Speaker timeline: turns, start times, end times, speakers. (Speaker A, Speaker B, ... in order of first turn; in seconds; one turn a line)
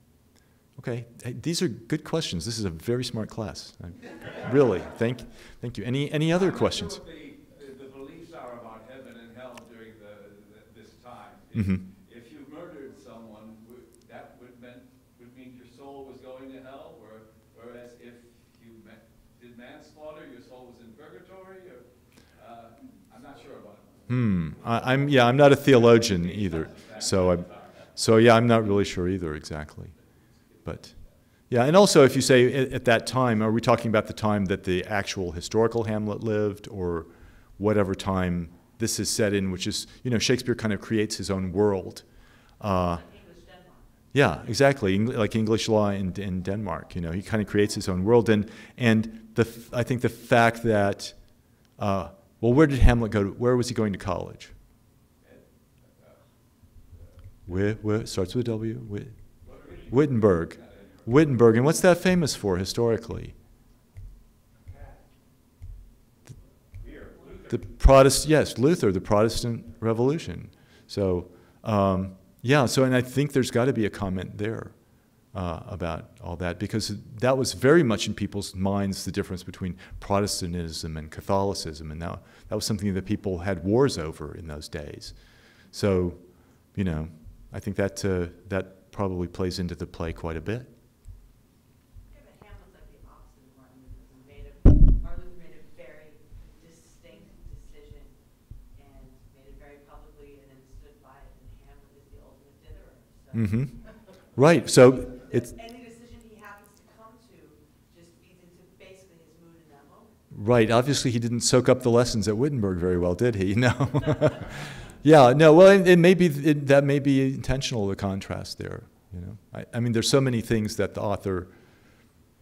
Speaker A: 0.8-7.0
Speaker B: 6.3-27.9
Speaker A: 11.5-11.8
Speaker A: 24.1-29.9
Speaker B: 30.4-31.1
Speaker A: 30.6-30.9
Speaker A: 31.5-42.0
Speaker A: 42.6-43.0
Speaker C: 42.6-44.2
Speaker A: 44.1-51.2
Speaker A: 51.8-54.5
Speaker B: 55.2-57.7
Speaker A: 57.5-63.4
Speaker B: 59.4-61.2
Speaker B: 64.6-65.0
Speaker B: 66.8-67.7
Speaker A: 67.5-74.8
Speaker A: 75.3-90.7
Speaker C: 92.1-98.2
Speaker C: 98.7-110.1
Speaker A: 103.3-105.5
Speaker A: 110.3-121.5